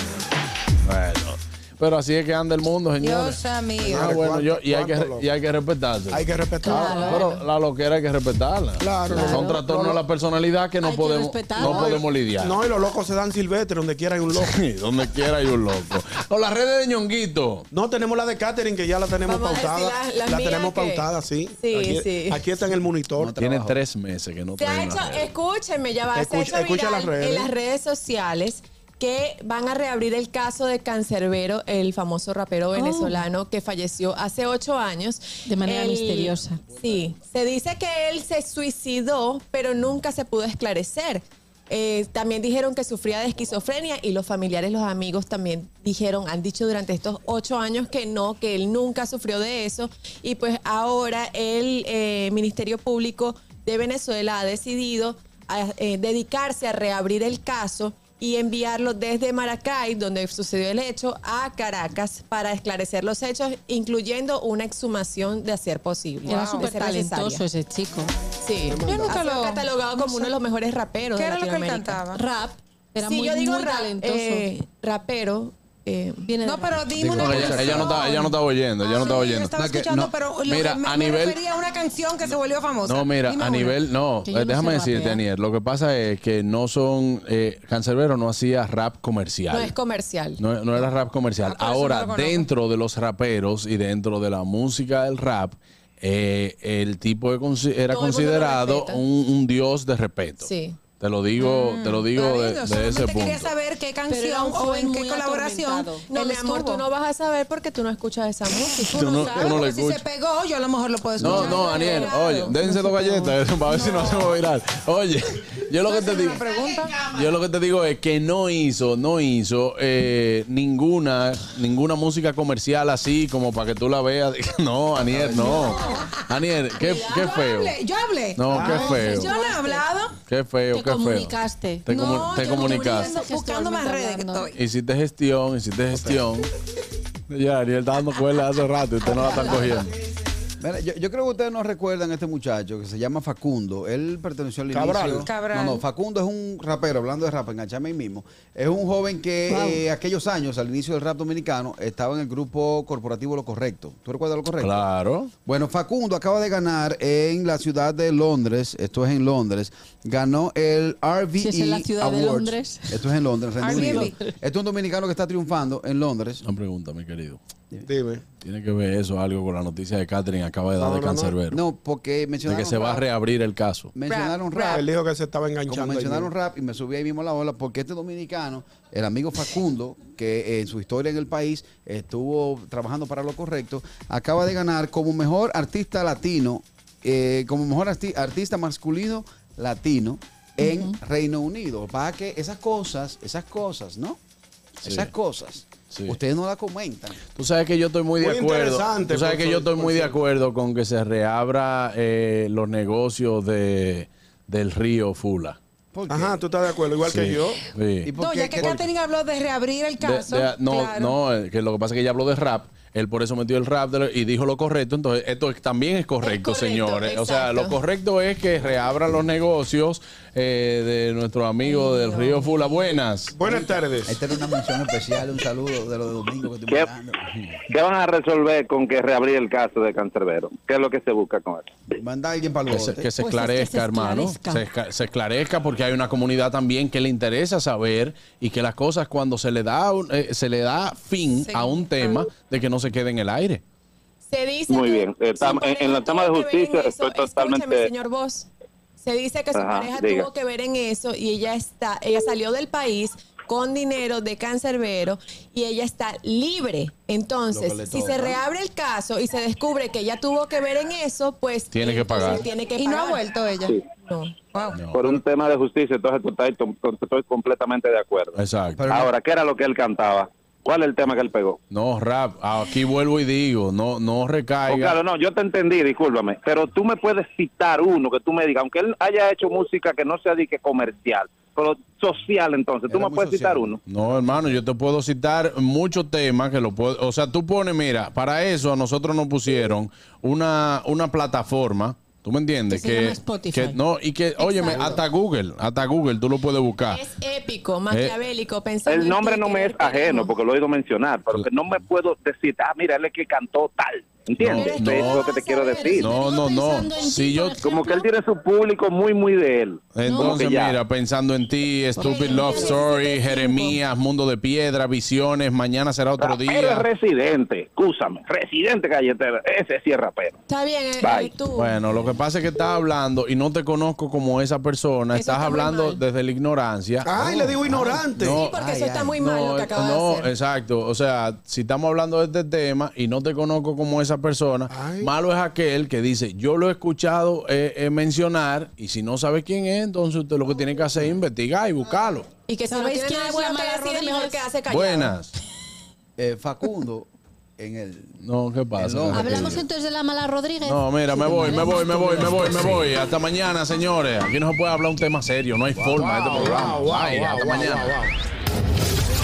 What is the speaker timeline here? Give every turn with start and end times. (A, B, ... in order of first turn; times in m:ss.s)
0:00.8-0:12.6 A
0:03.0-0:04.2 B
0:03.8-0:05.3 C
0:06.1-0:07.3 C
0:06.6-0:07.3 D
0:08.8-0:10.0 C
0:09.1-0:09.6 D
0:10.8-0:12.0 D
0:11.5-0:14.5 C
0:14.4-0:17.6 A
0:17.7-0:23.3 C
0:19.2-0:22.5 E
0:23.2-0:23.8 F
0:23.4-0:25.3 A
0:24.6-1:07.4 E
0:26.1-0:27.5 C
0:32.7-0:33.2 D
0:35.4-0:36.6 D
1:06.2-1:08.1 D
1:06.3-1:06.7 B
1:08.4-1:12.0 E
1:08.7-1:09.2 C
1:08.8-1:10.3 B
1:11.2-1:12.2 B
1:12.1-1:14.5 D
1:13.0-1:16.2 E
1:16.2-1:16.9 D
1:16.4-1:23.8 B
1:17.0-1:17.9 F
1:17.2-1:19.5 A
1:19.6-1:20.1 F
1:20.5-1:21.4 A
1:22.8-1:29.7 A
1:24.2-1:25.2 D
1:29.5-1:30.4 E
1:30.4-1:43.5 A
1:31.4-1:32.5 B
1:37.9-1:39.0 E
1:40.4-1:40.8 E
1:41.4-1:46.8 B
1:44.1-1:46.0 D
1:46.1-1:49.6 E
1:48.7-1:54.3 B
1:48.9-1:50.0 A
1:51.2-1:56.4 A
1:51.5-1:52.0 D
1:51.7-1:52.0 E
1:55.8-1:57.0 B
1:57.0-2:07.7 A
2:05.5-2:06.2 B
2:06.8-2:07.4 D
2:06.9-2:10.1 B
2:08.4-2:09.3 A
2:08.5-2:09.1 C
2:08.6-2:09.8 D
2:10.2-2:11.3 A
2:10.7-2:14.5 D
2:11.8-2:13.1 A
2:11.9-2:14.5 B
2:14.5-2:16.5 A
2:15.9-2:16.3 C
2:17.3-2:19.9 A
2:20.6-2:34.8 F
2:24.7-2:25.3 C
2:25.2-2:25.8 B
2:29.5-2:29.8 D
2:34.6-2:35.3 A
2:35.4-2:46.4 F
2:41.4-2:43.0 D
2:43.6-2:44.2 B
2:43.6-2:44.3 D
2:46.4-2:47.4 A
2:47.8-2:48.2 C
2:48.4-2:51.6 A
2:50.8-2:51.4 C
2:51.5-2:53.0 F
2:52.4-2:53.9 A
2:53.9-2:54.8 F
2:54.1-2:54.8 B
2:54.6-2:56.3 C
2:55.7-3:14.2 F
3:10.6-3:11.0 D
3:14.8-3:17.2 F
3:14.8-3:15.1 A
3:15.9-3:16.2 A
3:17.3-3:25.6 A
3:18.2-3:20.2 C
3:25.9-3:26.4 F
3:26.1-3:27.6 C
3:27.0-3:28.1 A
3:28.0-3:28.8 F
3:28.2-3:31.2 B
3:30.0-3:43.4 A
3:36.2-3:37.8 E
3:41.6-3:42.8 B
3:43.3-3:44.2 C
3:44.0-3:47.4 F
3:47.7-3:51.7 G
3:51.9-3:53.1 F
3:52.7-4:03.6 A
3:53.2-3:54.6 D
4:01.4-4:02.2 B
4:04.3-4:08.5 E
4:04.7-4:07.9 G
4:09.0-4:23.2 E
4:09.5-4:10.3 G
4:17.5-4:18.4 F
4:21.7-4:22.4 A
4:22.8-4:23.8 B
4:24.0-4:24.3 E
4:24.5-4:24.8 B
4:24.7-4:25.2 A
4:24.9-4:31.6 G
4:28.3-4:28.8 A
4:28.8-4:29.1 F
4:31.7-4:35.0 A
4:34.7-4:43.8 G
4:42.9-4:44.5 F
4:43.9-4:57.0 A
4:52.7-4:53.8 D
4:54.4-4:54.8 D
4:54.7-4:55.0 E
4:54.7-4:55.0 F
4:56.9-5:00.4 E
4:57.9-4:58.1 A
4:58.8-5:06.1 G
5:04.4-5:05.2 A
5:04.5-5:06.1 E
5:04.5-5:08.1 D
5:05.9-5:07.6 A
5:07.6-5:10.8 G
5:09.9-5:16.9 A
5:10.0-5:10.4 D
5:12.0-5:13.8 D
5:12.1-5:12.8 E
5:16.2-5:20.4 G
5:20.5-5:21.8 E
5:21.0-5:21.3 G
5:21.5-5:27.1 A
5:25.2-5:26.0 E
5:27.0-5:28.4 C
5:27.1-5:29.3 F
5:28.2-5:28.5 A
5:28.3-5:30.3 E
5:29.2-5:42.3 A
5:34.7-5:35.1 C
5:42.5-5:45.2 E
5:42.7-5:44.4 D
5:44.7-5:45.3 A
5:46.2-5:48.2 F
5:48.2-5:49.6 A
5:48.7-5:49.6 F
5:49.1-5:52.5 D
5:50.6-5:58.0 A
5:51.2-5:52.8 F
5:55.8-5:58.1 C
5:56.3-5:56.7 F